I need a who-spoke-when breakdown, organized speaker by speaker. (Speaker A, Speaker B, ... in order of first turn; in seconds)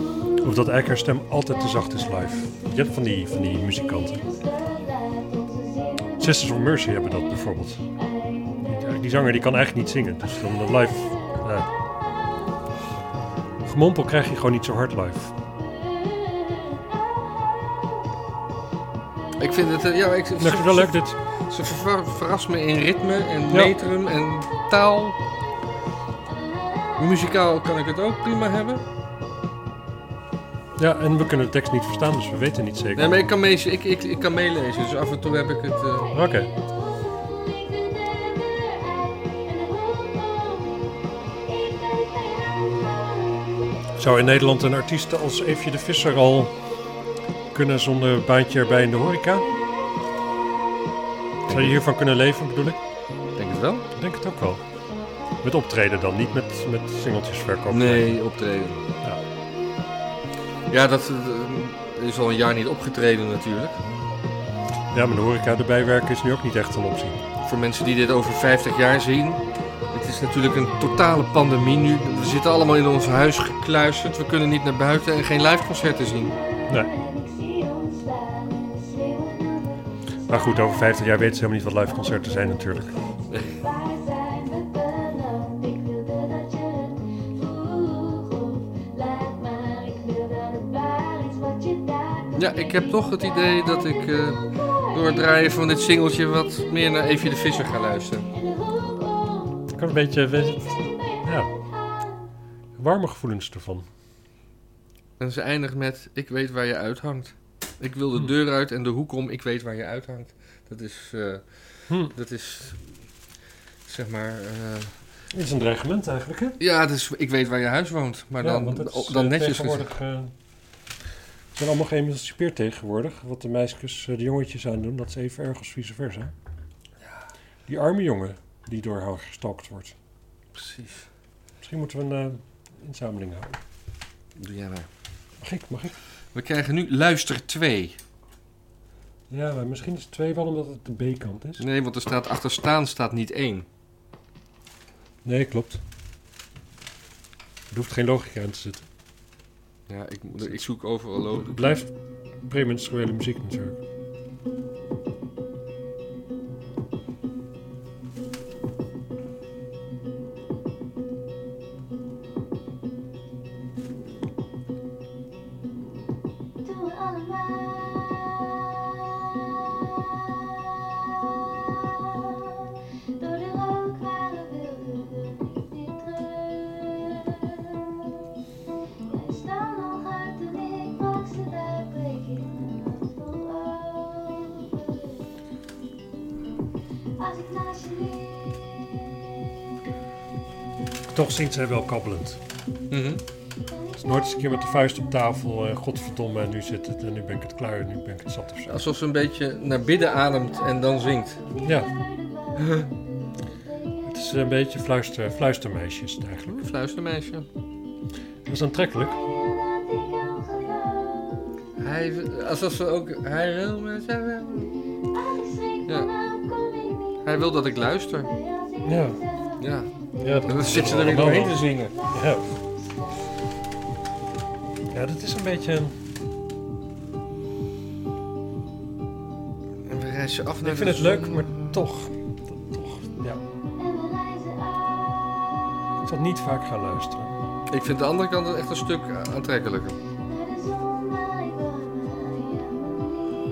Speaker A: 0.4-4.4, 6.2-7.8, 8.6-11.7, 13.7-15.3, 20.4-21.2, 30.8-33.3, 36.1-36.5, 44.0-46.5, 47.5-49.5, 51.5-52.8, 54.0-54.6, 55.4-58.2, 64.9-67.2, 76.7-77.0, 80.3-83.0, 99.7-101.5, 102.8-103.9, 111.9-112.2, 115.3-116.6, 118.4-120.3, 121.5-126.3, 127.7-130.0, 131.6-133.6, 135.4-136.0, 139.3-141.7, 145.2-145.8, 147.7-148.9, 150.4-150.6, 151.5-151.9, 152.5-153.8, 191.2-192.4, 194.0-198.7, 201.6-202.0, 204.0-206.6, 208.5-209.3, 218.8-219.3, 220.2-222.6, 224.9-225.9, 230.6-233.4, 236.1-237.4
Speaker B: 5.3-5.8, 77.2-79.5, 84.2-91.9, 166.7-168.7, 173.2-177.9, 179.1-184.9, 187.3-188.4, 209.7-211.3, 233.8-235.4, 240.3-243.0
Speaker C: 19.4-25.2, 27.0-28.8, 33.0-36.1, 51.5-51.8, 53.4-53.9, 57.7-58.8, 60.7-63.8, 67.4-76.3, 83.3-83.7, 92.3-98.3, 105.2-112.9, 113.9-115.0, 116.6-119.9, 130.5-131.1, 134.4-134.9, 136.3-138.0, 141.6-143.7, 149.9-151.8, 192.9-193.2, 198.7-201.4, 202.6-202.9, 206.5-207.5, 211.8-214.7, 215.8-216.3, 217.2-218.3, 219.6-222.0, 229.8-231.7, 237.7-240.0